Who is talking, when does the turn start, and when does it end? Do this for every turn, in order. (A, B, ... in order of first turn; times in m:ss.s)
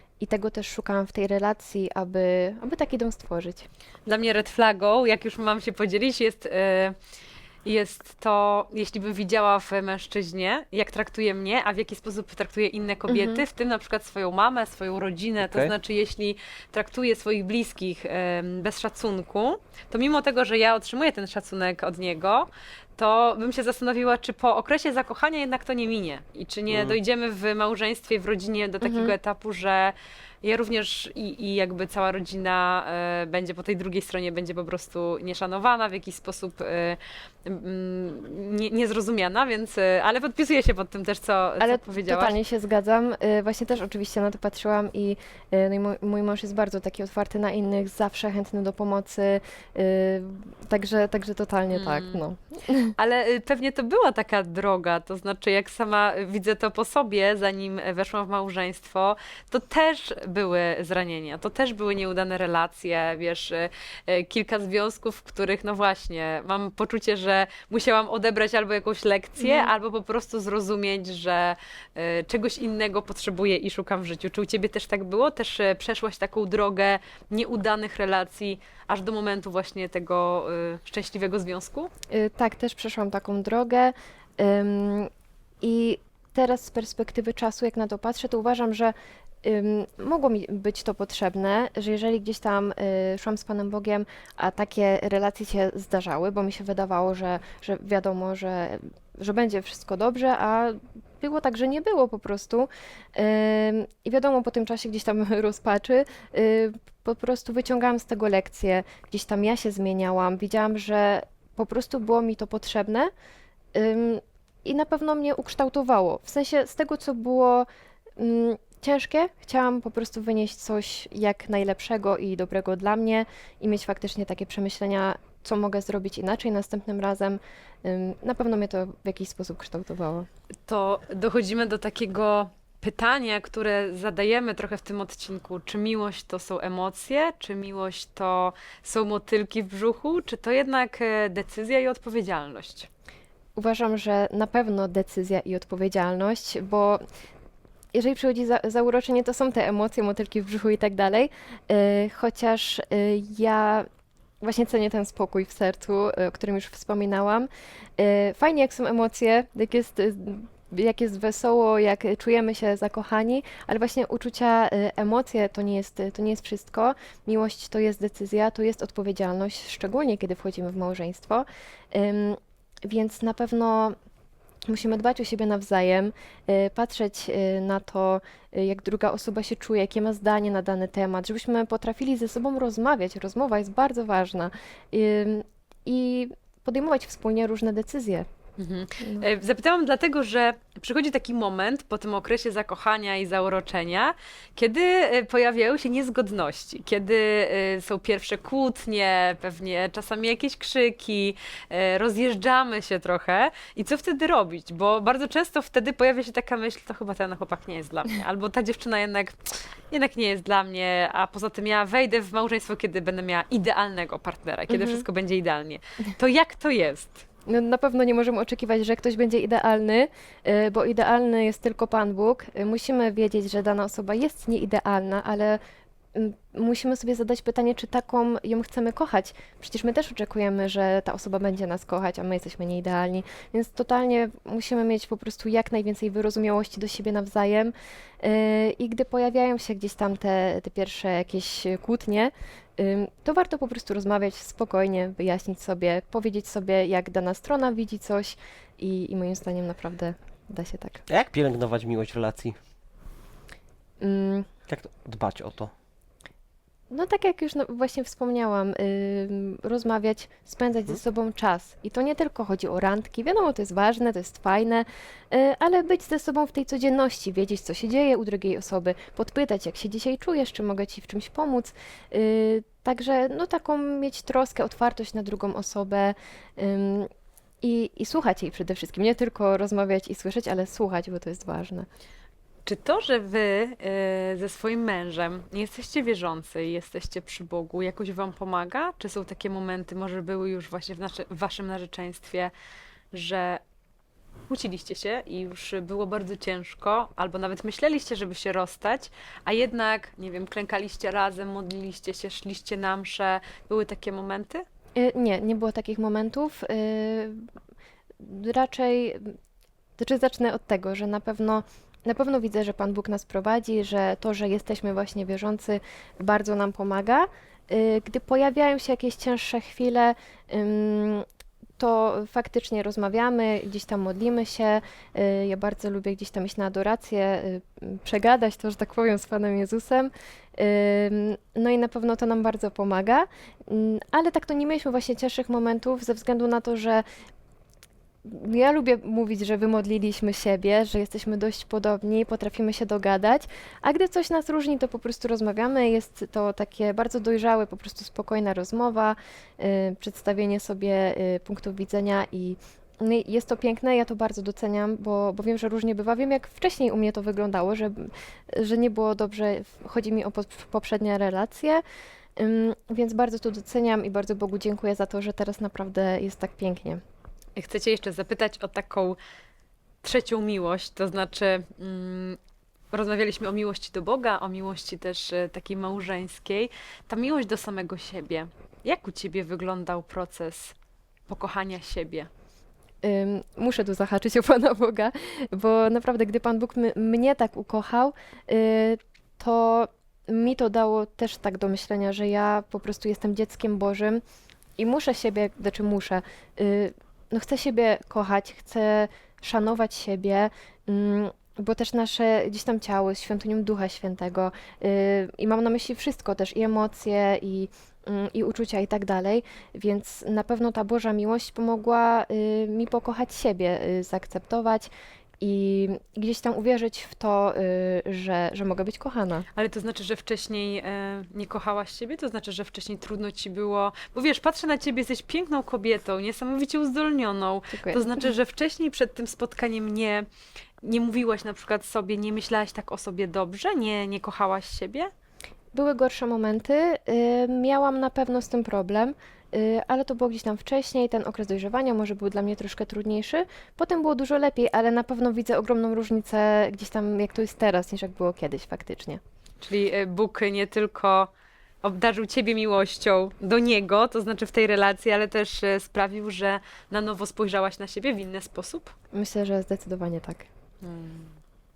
0:00.2-0:03.7 A
0:04.1-0:07.0 B
0:07.6-0:42.4 B
0:13.1-0:13.4 A
0:15.4-0:15.7 C
0:26.7-0:27.0 C
0:28.8-0:29.1 A
0:41.6-0:52.9 A
0:51.7-0:52.3 B
0:53.0-1:21.9 B
1:09.4-1:09.7 A
1:22.1-1:25.1 A
1:25.6-1:53.1 A
1:53.8-2:10.3 A
2:10.7-2:22.9 B
2:23.6-2:27.0 A
2:27.9-2:33.9 A
2:34.4-2:54.0 A
2:54.7-3:08.3 A
3:08.6-3:37.2 B
3:34.7-3:35.0 A
3:37.5-3:45.6 A
3:46.2-4:11.0 A
4:11.1-4:12.6 C
4:14.0-4:14.5 A
4:14.7-4:15.7 C
4:16.9-4:37.1 A
4:37.6-4:41.9 A
4:42.7-4:52.5 B
4:53.1-4:53.6 B
4:54.5-5:04.6 B
5:05.0-5:07.5 A
5:08.2-5:09.4 A
5:10.0-5:21.2 A
5:21.8-5:37.0 A
5:38.2-6:01.8 A
6:02.4-6:07.0 A
6:07.6-6:09.2 B
6:10.0-6:12.4 B
6:12.9-6:20.7 B
6:21.3-6:22.3 B
6:23.0-6:34.2 A
6:34.8-6:59.5 A
6:59.6-7:10.3 B
7:07.7-7:08.2 A
7:10.8-7:15.1 B
7:15.7-7:29.2 A
7:29.6-7:31.3 B
7:31.8-7:39.0 B
7:39.1-7:40.5 A
7:40.8-7:41.4 B